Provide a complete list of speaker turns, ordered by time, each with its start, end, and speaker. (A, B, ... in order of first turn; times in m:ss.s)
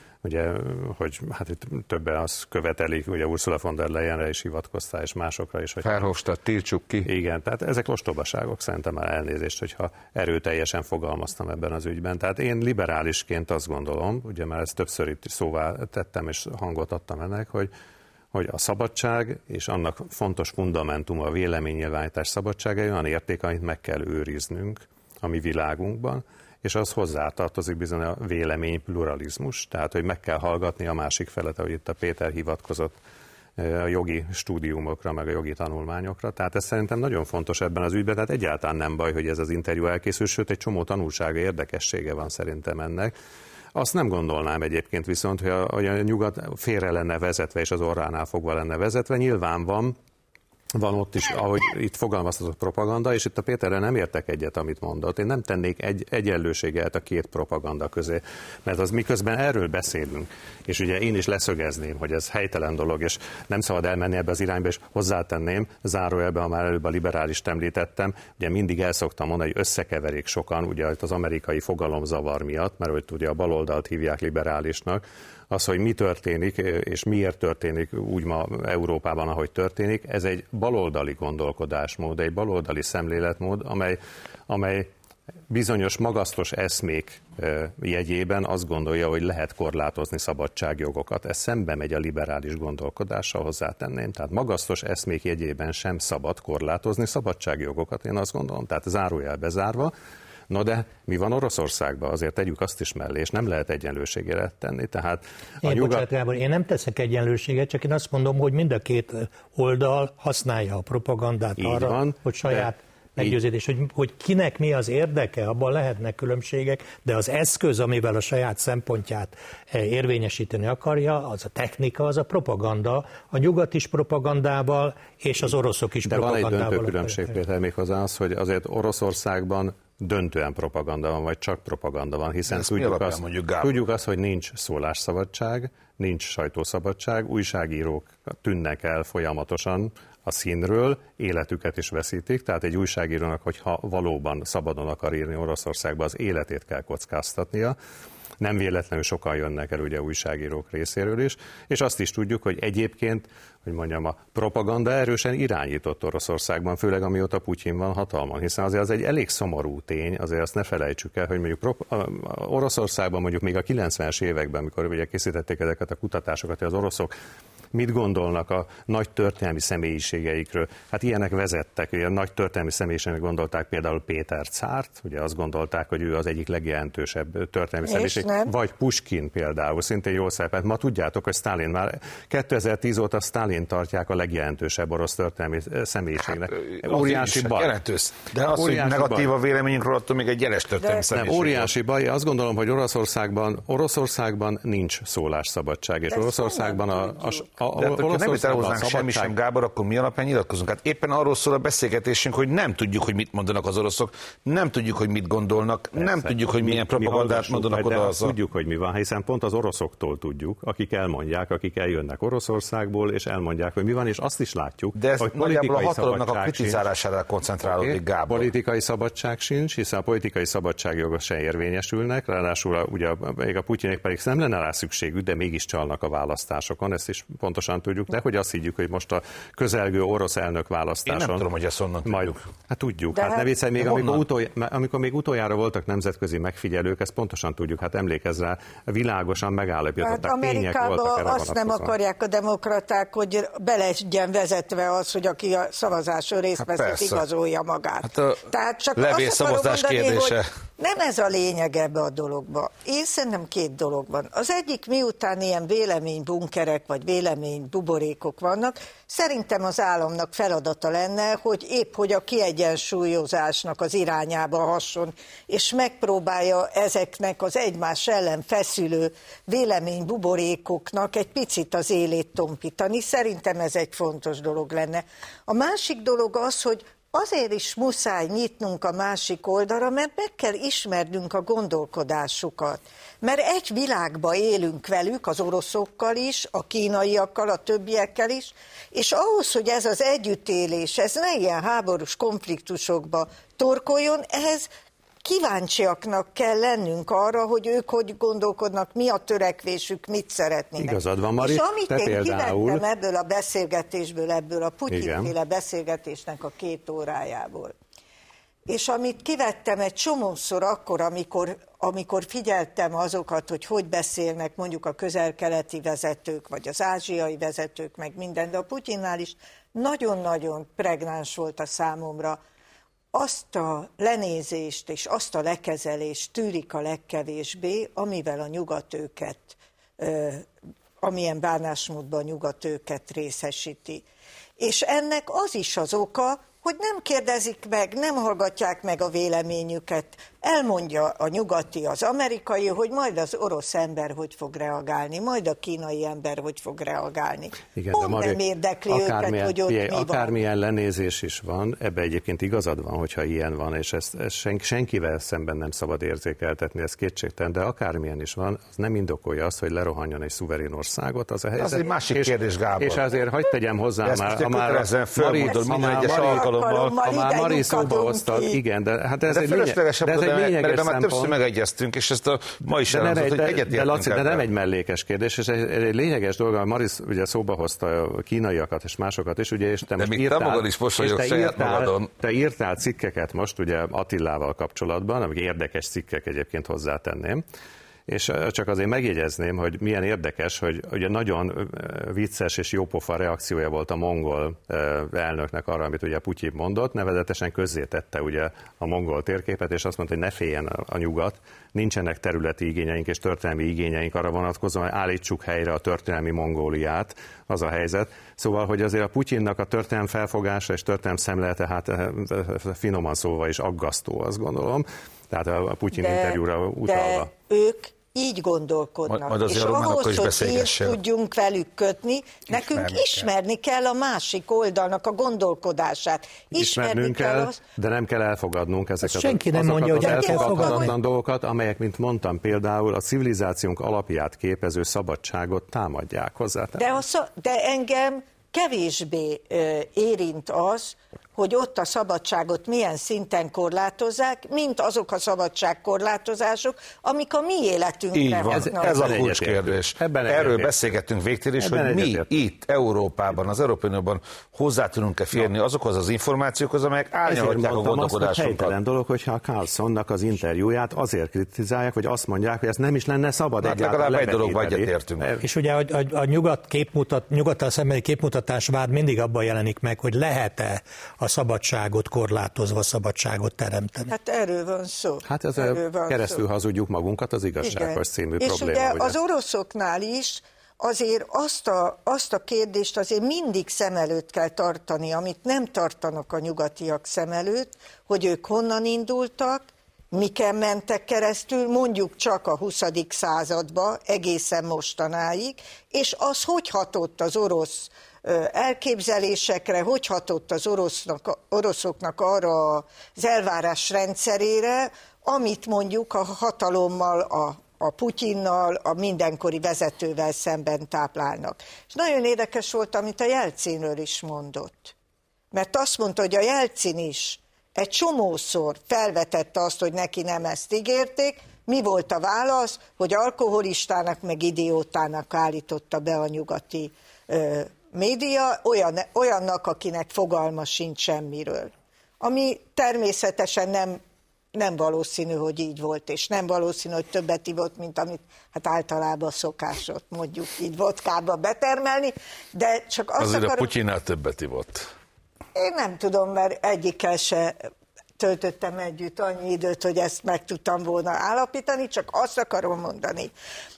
0:00.2-0:06.1 A
0:05.8-0:07.1 B
0:07.1-0:17.7 A
0:18.3-0:33.0 A
0:33.6-0:43.1 A
0:43.8-0:50.0 A
0:50.7-1:24.9 A
1:25.5-1:39.9 A
1:40.5-1:46.1 A
1:45.6-2:07.4 C
1:51.6-1:53.4 A
2:06.1-2:27.8 A
2:12.5-2:13.8 D
2:28.4-2:47.1 A
2:47.7-3:07.7 A
2:57.8-2:58.5 E
3:06.5-3:11.7 D
3:08.5-3:09.3 A
3:10.8-3:11.1 E
3:11.1-3:19.3 A
3:16.1-3:17.6 E
3:17.8-3:28.4 D
3:26.0-3:36.8 A
3:35.0-3:38.5 D
3:37.6-3:51.4 A
3:51.1-3:52.4 D
3:52.1-4:02.0 A
3:53.1-3:53.5 E
3:53.8-3:54.3 D
4:00.0-4:54.7 E
4:06.6-4:07.2 D
4:08.0-4:10.5 D
4:55.2-5:07.8 E
5:00.8-5:02.8 A
5:04.9-5:05.3 A
5:08.7-5:22.4 E
5:23.1-5:30.5 E
5:31.0-5:34.1 E
5:34.6-5:50.4 E
5:47.7-6:06.5 A
6:01.6-6:03.0 D
6:04.0-6:06.9 D
6:05.4-6:08.6 E
6:07.0-6:11.4 A
6:09.3-6:14.5 D
6:12.9-6:27.4 A
6:20.0-6:22.1 D
6:28.1-6:57.3 A
6:55.9-7:07.6 E
6:59.1-7:01.0 D
7:02.5-7:03.3 B
7:06.6-7:16.9 A
7:09.0-7:10.9 C
7:10.0-7:10.9 E
7:16.8-7:29.2 E
7:28.1-7:38.8 D
7:28.5-7:30.8 A
7:31.6-7:32.3 A
7:37.3-7:45.4 A
7:43.6-7:45.3 D
7:45.4-7:54.1 C
7:54.1-7:56.5 E
7:55.3-7:59.2 A
7:57.6-8:34.9 E
8:35.5-8:54.0 E
8:54.6-9:03.7 E
9:03.2-9:04.9 D
9:05.5-9:07.7 E
9:08.2-9:13.3 E